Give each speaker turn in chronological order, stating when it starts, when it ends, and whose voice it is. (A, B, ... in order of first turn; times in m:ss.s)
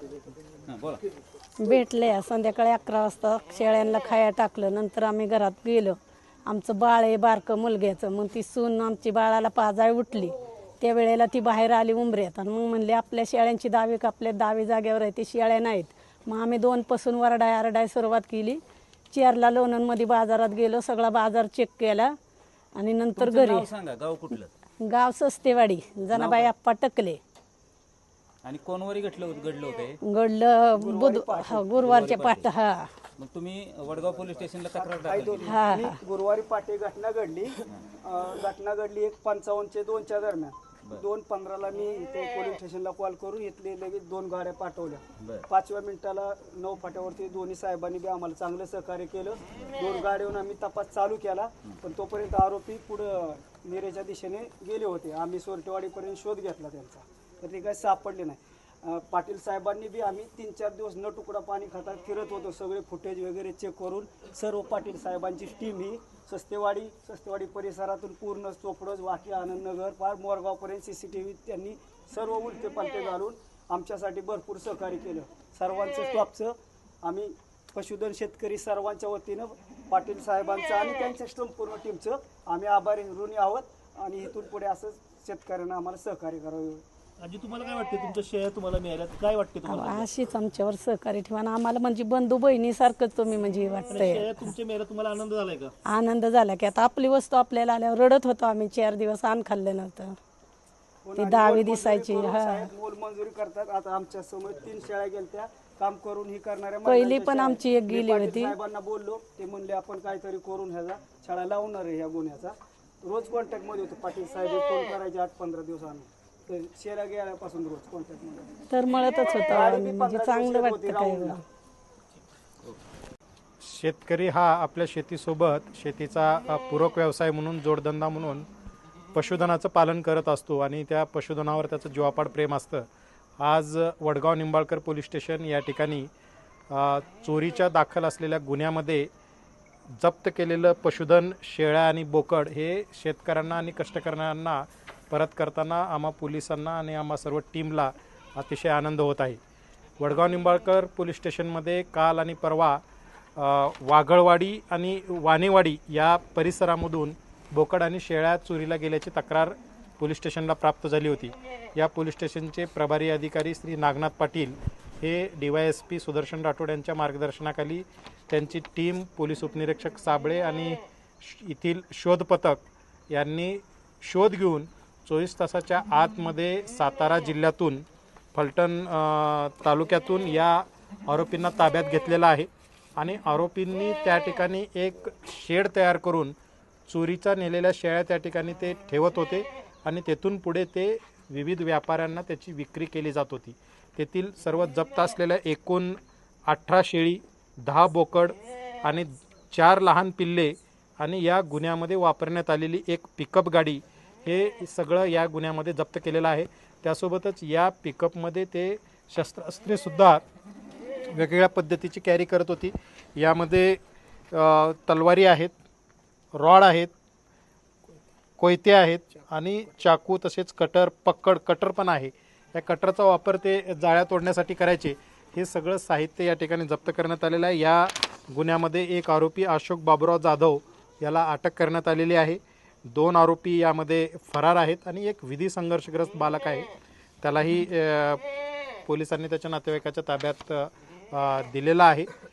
0:00.6-0:01.0 A
0:01.6-0:18.6 B
0:19.1-0:22.1 B
0:22.8-0:23.7 B
0:23.2-0:24.5 A
0:24.8-0:27.2 B
0:26.1-0:26.5 A
0:28.4-0:30.0 A
0:30.0-0:32.9 B
0:30.8-0:31.8 C
0:31.8-0:32.5 A
0:33.2-0:35.6 A
0:34.7-1:26.8 C
0:35.4-0:36.0 B
0:45.2-0:45.4 A
1:27.2-1:30.1 D
1:29.7-1:34.3 B
1:33.9-1:35.7 D
1:35.8-1:40.2 B
1:41.0-1:58.5 C
1:41.2-1:42.7 B
1:46.8-1:48.6 B
1:58.7-2:01.4 B
1:59.4-2:01.4 C
2:03.6-2:08.5 E
2:09.1-2:12.8 E
2:13.4-2:16.1 E
2:16.7-2:19.1 E
2:20.0-2:29.4 E
2:30.0-2:32.8 E
2:33.4-3:06.3 E
3:06.9-3:30.2 E
3:31.1-3:33.8 E
3:34.3-3:35.5 E
3:36.3-3:36.9 E
3:38.4-3:56.7 E
3:57.2-3:58.2 E
3:58.8-4:02.1 E